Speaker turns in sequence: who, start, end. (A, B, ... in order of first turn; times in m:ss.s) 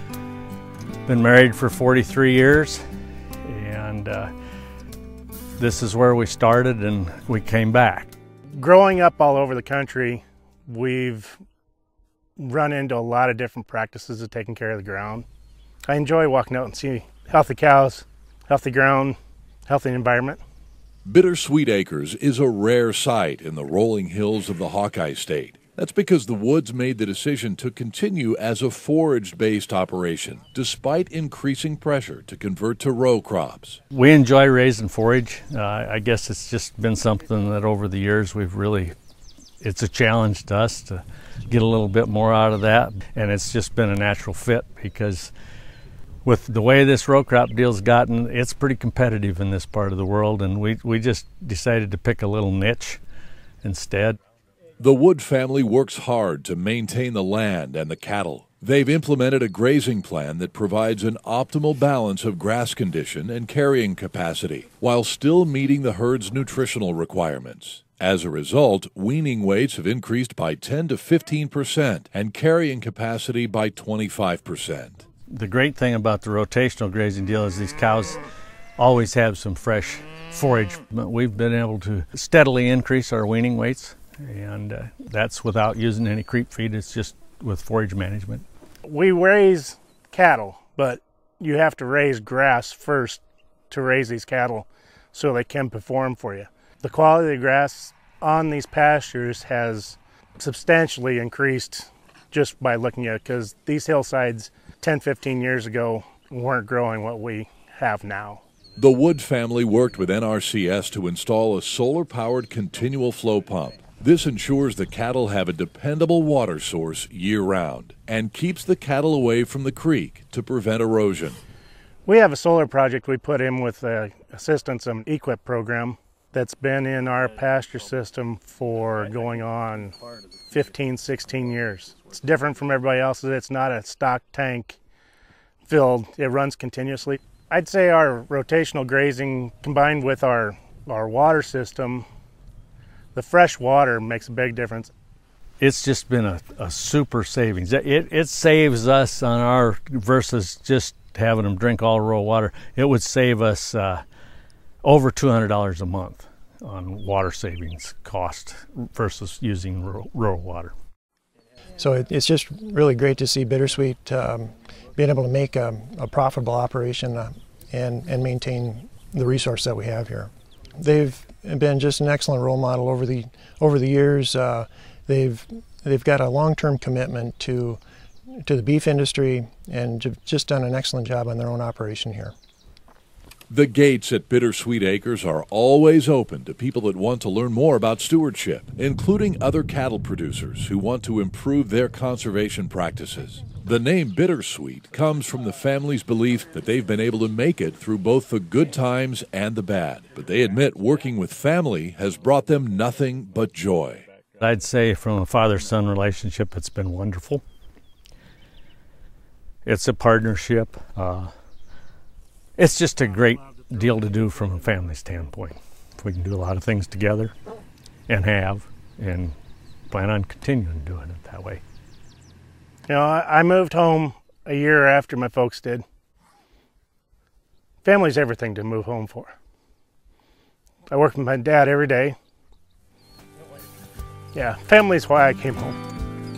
0:01.1-0:02.8 A
0:03.4-0:04.3 A
0:05.6-0:08.1 A
0:08.5-0:11.4 B
0:12.4-0:15.3 B
0:15.9-0:20.4 B
0:21.1-0:33.8 C
0:33.9-0:39.0 A
0:39.6-0:45.3 A
0:46.2-0:53.0 A
0:53.6-0:54.2 A
0:54.8-1:15.0 C
1:15.3-1:18.2 A
1:18.8-1:28.5 A
1:28.8-1:48.4 B
1:48.8-2:01.4 C
2:02.1-2:10.0 B
2:10.5-2:14.8 B
2:15.7-2:22.1 B
2:23.2-2:24.9 B
2:25.6-2:34.0 A
2:34.8-2:40.7 A
2:41.8-2:57.8 D
2:58.4-3:02.3 D
3:03.5-3:24.1 C
3:24.4-3:27.4 A
3:29.6-3:31.3 A
3:32.6-3:37.3 A
3:38.1-3:39.4 A
3:39.9-3:41.6 A
3:42.9-3:45.8 B
3:47.8-3:49.4 B
3:50.9-3:52.2 B
3:54.3-3:55.8 B